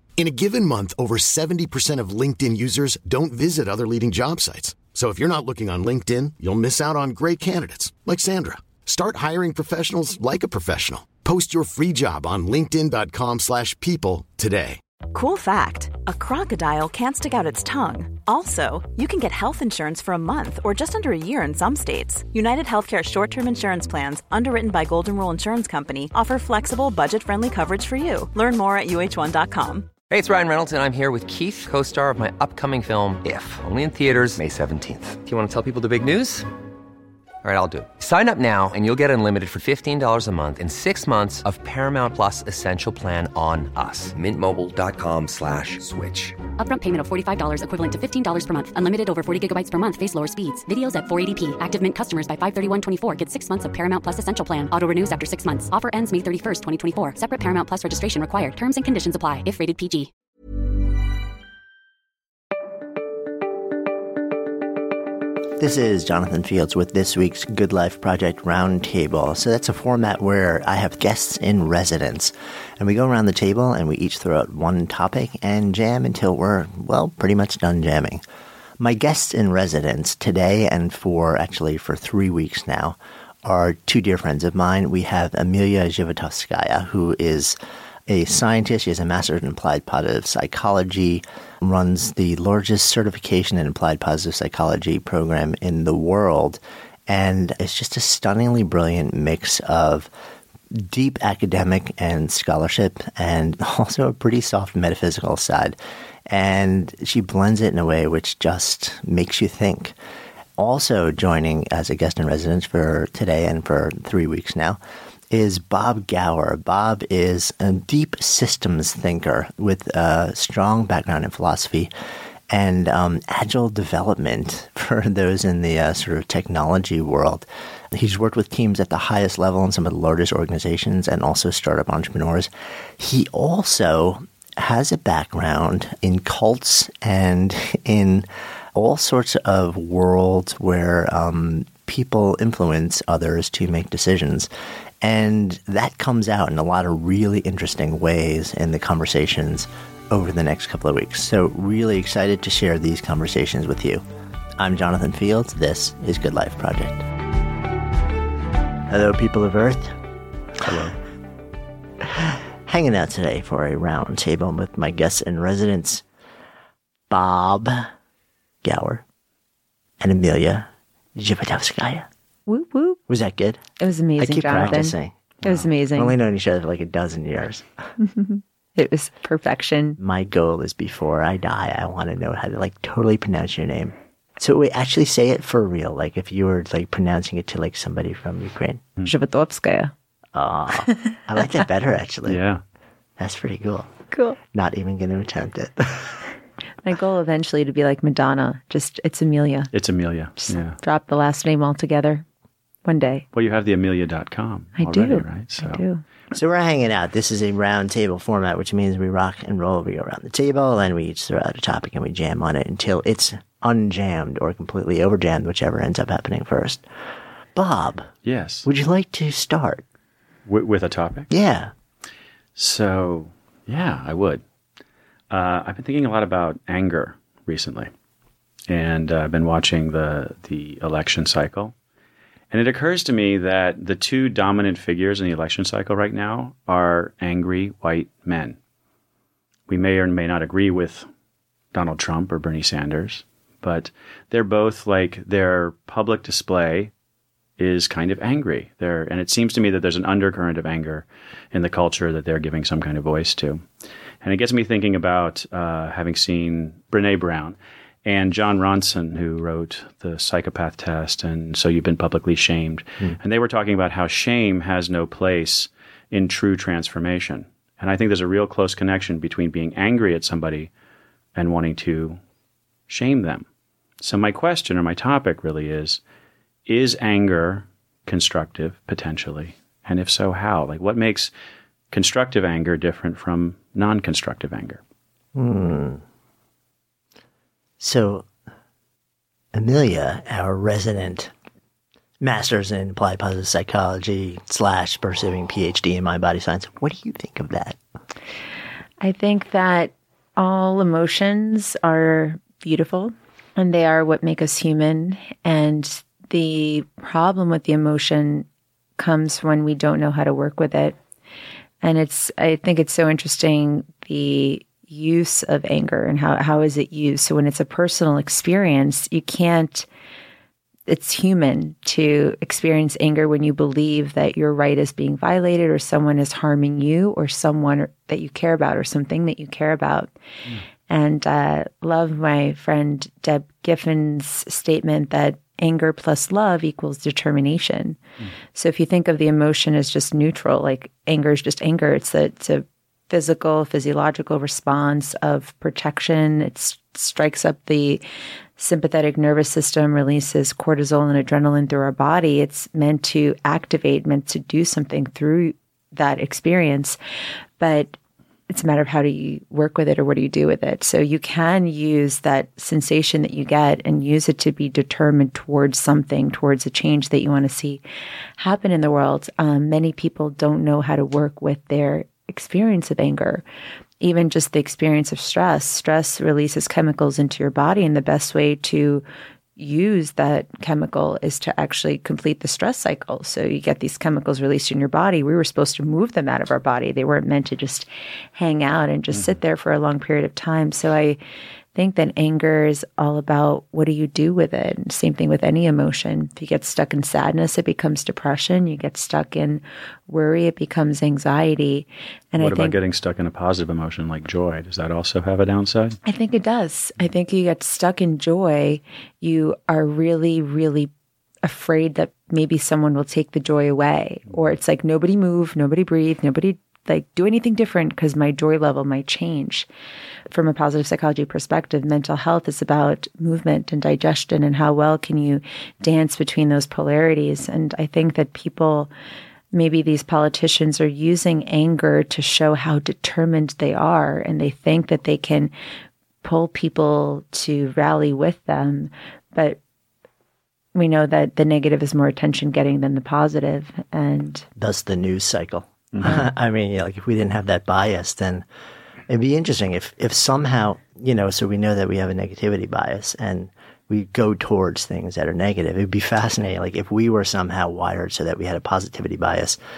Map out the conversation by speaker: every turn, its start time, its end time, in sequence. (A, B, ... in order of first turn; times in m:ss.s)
0:00.2-0:14.8 A
0:15.1-0:29.9 B
0:30.1-0:36.5 C
0:37.4-0:46.4 C
0:46.6-1:00.1 D
1:05.6-1:18.2 E
1:18.8-1:27.6 E
1:28.1-1:40.1 E
1:40.7-1:50.0 E
1:50.6-1:54.8 E
1:55.3-2:01.9 E
2:02.5-2:24.5 E
2:25.0-2:34.0 E
2:34.6-2:37.0 E
2:38.9-2:39.9 E
2:40.6-2:40.9 F
2:42.0-2:46.0 E
2:47.1-2:47.9 E
2:48.6-2:49.0 E
2:50.0-2:52.1 E
2:52.5-2:53.0 G
2:53.1-2:53.6 E
2:53.8-2:56.2 G
2:54.2-2:57.6 E
2:58.0-3:00.0 G
3:00.0-3:08.8 E
3:09.0-3:09.9 G
3:10.3-3:12.4 E
3:12.2-3:12.6 F
3:13.2-3:13.9 E
3:14.1-3:14.4 G
3:14.5-3:16.2 E
3:16.8-3:19.7 G
3:19.7-3:20.8 F
3:20.4-3:22.2 G
3:22.8-3:23.2 G
3:23.3-3:25.8 F
3:24.8-3:26.0 G
3:26.3-3:36.8 E
3:37.5-3:38.1 E
3:38.2-3:38.7 F
3:38.6-3:39.8 E
3:40.4-3:41.3 F
3:41.3-3:41.7 E
3:42.6-3:44.4 F
3:45.3-3:47.9 F
3:48.7-3:51.7 F
3:52.5-3:58.6 F
3:59.7-4:01.1 F
4:01.7-4:06.9 F
4:07.6-4:13.6 F
4:14.2-4:30.7 F
4:31.3-4:32.2 F
4:32.9-4:33.4 F
4:34.0-4:36.0 F
4:36.7-4:41.3 F
4:41.9-4:44.8 F
4:45.3-4:46.0 E
4:47.8-4:48.3 E
4:49.5-4:51.3 E
4:52.2-4:57.8 E
4:59.0-5:08.4 G
5:09.0-5:11.0 G
5:11.8-5:19.9 G
5:20.9-5:30.1 G
5:30.9-5:38.0 G
5:38.5-5:48.0 G
5:48.6-5:57.0 G
5:57.6-5:58.0 G
5:58.5-6:07.8 G
6:08.4-6:13.4 G
6:14.0-6:19.0 G
6:19.6-6:31.2 G
6:31.7-6:42.7 G
6:42.4-6:46.0 F
6:46.0-6:50.9 G
6:51.4-6:59.7 G
7:00.3-7:08.9 G
7:09.5-7:15.5 G
7:16.2-7:19.6 G
7:20.7-7:24.4 G
7:24.6-7:28.4 E
7:29.1-7:39.6 E